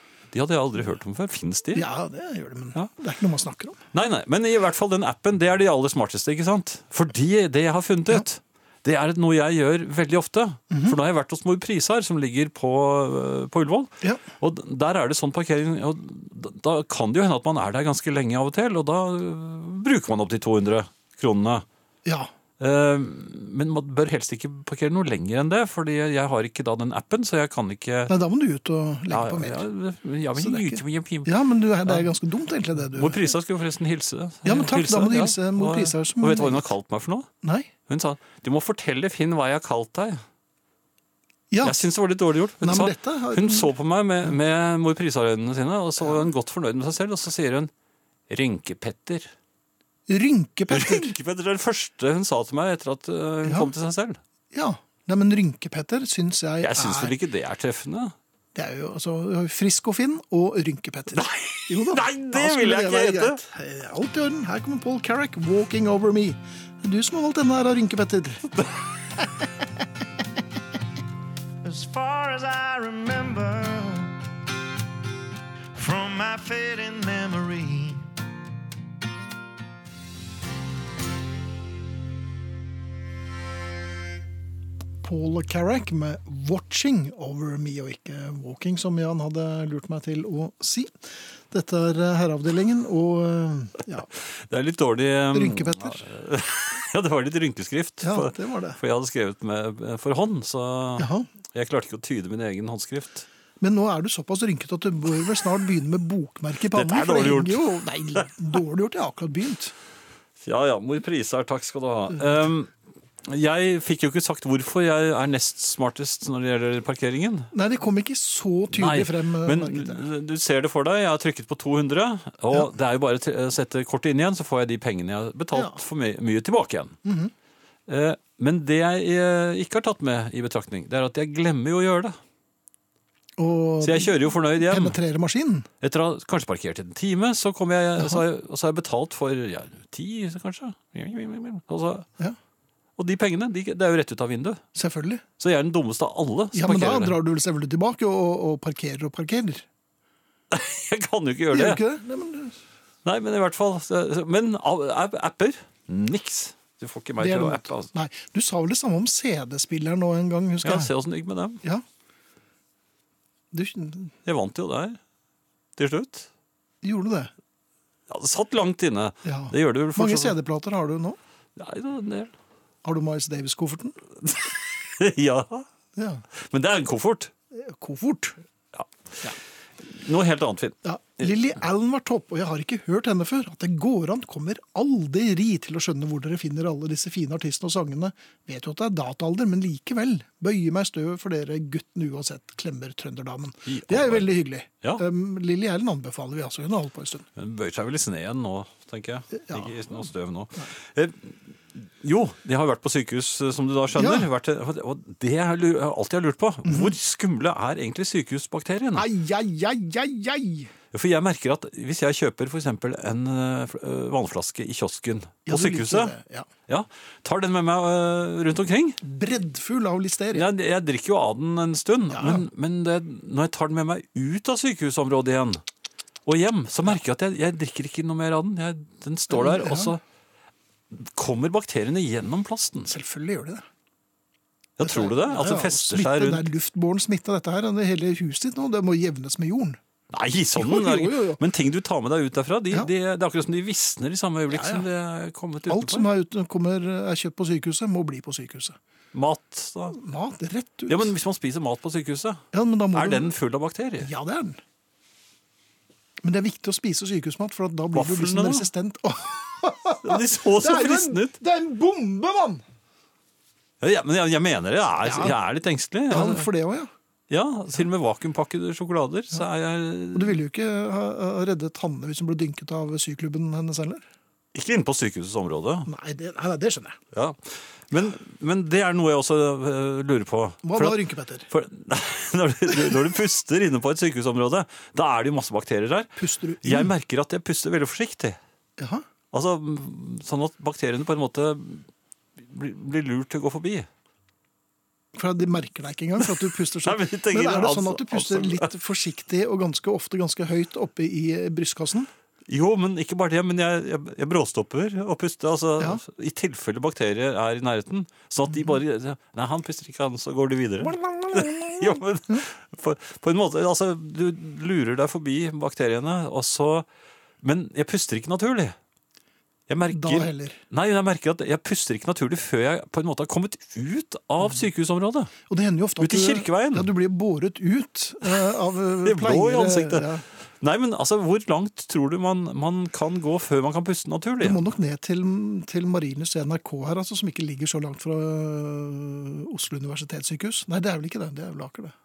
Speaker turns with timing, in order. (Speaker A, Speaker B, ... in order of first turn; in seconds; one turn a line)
Speaker A: 0.3-1.9
Speaker B: 1.7-3.8
Speaker A: 3.9-21.6
Speaker B: 10.7-11.0
Speaker B: 22.0-22.3
Speaker A: 22.6-28.1
Speaker B: 28.1-29.6
Speaker A: 29.1-32.1
Speaker B: 30.4-33.3
Speaker A: 32.9-37.3
Speaker B: 34.4-36.7
Speaker B: 37.4-37.7
Speaker A: 37.9-40.2
Speaker B: 41.5-41.9
Speaker A: 41.6-47.7
Speaker B: 42.6-43.7
Speaker A: 48.3-49.3
Speaker B: 50.1-51.1
Speaker A: 50.7-54.2
Speaker B: 53.4-53.7
Speaker B: 54.5-57.1
Speaker A: 56.6-58.1
Speaker B: 58.5-68.5
Speaker A: 61.1-63.4
Speaker C: 71.6-74.1
Speaker C: 75.7-78.0
Speaker B: 85.0-94.1
Speaker A: 94.5-103.2
Speaker B: 95.3-96.0
Speaker B: 98.0-98.8
Speaker B: 101.0-101.3
Speaker B: 103.6-109.7
Speaker A: 106.7-108.2
Speaker A: 110.4-112.7
Speaker A: 113.2-117.5
Speaker B: 117.5-120.0
Speaker A: 118.7-127.0
Speaker B: 125.5-125.8
Speaker B: 127.0-127.3
Speaker A: 127.9-132.2
Speaker B: 133.4-135.7
Speaker A: 133.8-135.0
Speaker A: 135.8-142.1
Speaker A: 143.0-144.6
Speaker B: 144.7-145.2
Speaker A: 145.4-147.2
Speaker B: 146.5-149.7
Speaker A: 150.5-151.8
Speaker B: 151.5-152.6
Speaker A: 153.0-157.9
Speaker B: 157.2-160.9
Speaker A: 160.6-161.6
Speaker B: 163.5-164.1
Speaker A: 164.2-165.0
Speaker A: 165.8-166.3
Speaker B: 166.8-167.3
Speaker A: 168.1-170.3
Speaker B: 169.2-171.2
Speaker A: 171.6-172.3
Speaker B: 172.8-174.0
Speaker A: 174.2-175.7
Speaker B: 175.9-176.2
Speaker A: 176.4-177.3
Speaker B: 177.5-178.4
Speaker A: 178.7-179.3
Speaker A: 179.8-181.3
Speaker B: 180.8-197.2
Speaker A: 193.7-195.0
Speaker A: 197.4-209.1
Speaker B: 199.5-199.9
Speaker B: 203.9-204.3
Speaker B: 206.6-206.9
Speaker B: 208.9-210.7
Speaker A: 210.9-216.1
Speaker B: 215.5-216.5
Speaker A: 216.7-219.0
Speaker B: 219.0-220.5
Speaker A: 220.3-225.6
Speaker B: 222.1-222.5
Speaker A: 226.2-230.0
Speaker B: 229.3-229.9
Speaker A: 230.9-232.9
Speaker B: 232.8-233.6
Speaker A: 234.8-236.5
Speaker B: 234.8-239.8
Speaker A: 240.1-246.1
Speaker B: 240.6-241.4
Speaker B: 244.5-244.9
Speaker B: 245.7-248.8
Speaker A: 249.1-250.0
Speaker B: 249.9-251.1
Speaker A: 250.9-254.1
Speaker B: 252.5-253.3
Speaker B: 254.0-254.6
Speaker B: 256.2-262.6
Speaker A: 257.9-258.7
Speaker A: 260.0-261.4
Speaker A: 263.8-266.5
Speaker B: 265.0-265.4
Speaker B: 266.1-266.9
Speaker A: 267.3-270.4
Speaker B: 270.1-274.1
Speaker A: 274.5-275.9
Speaker B: 275.9-277.0
Speaker A: 277.1-288.4
Speaker B: 280.6-281.5
Speaker B: 286.2-286.9
Speaker B: 288.8-289.0
Speaker A: 289.3-293.9
Speaker B: 295.1-302.1
Speaker A: 296.8-298.7
Speaker A: 302.5-316.9
Speaker B: 311.3-311.8
Speaker A: 317.4-318.8
Speaker A: 319.7-325.3
Speaker B: 319.9-320.6
Speaker B: 325.5-330.2
Speaker A: 326.0-326.9
Speaker A: 329.0-330.1
Speaker A: 330.6-334.6
Speaker B: 334.4-341.9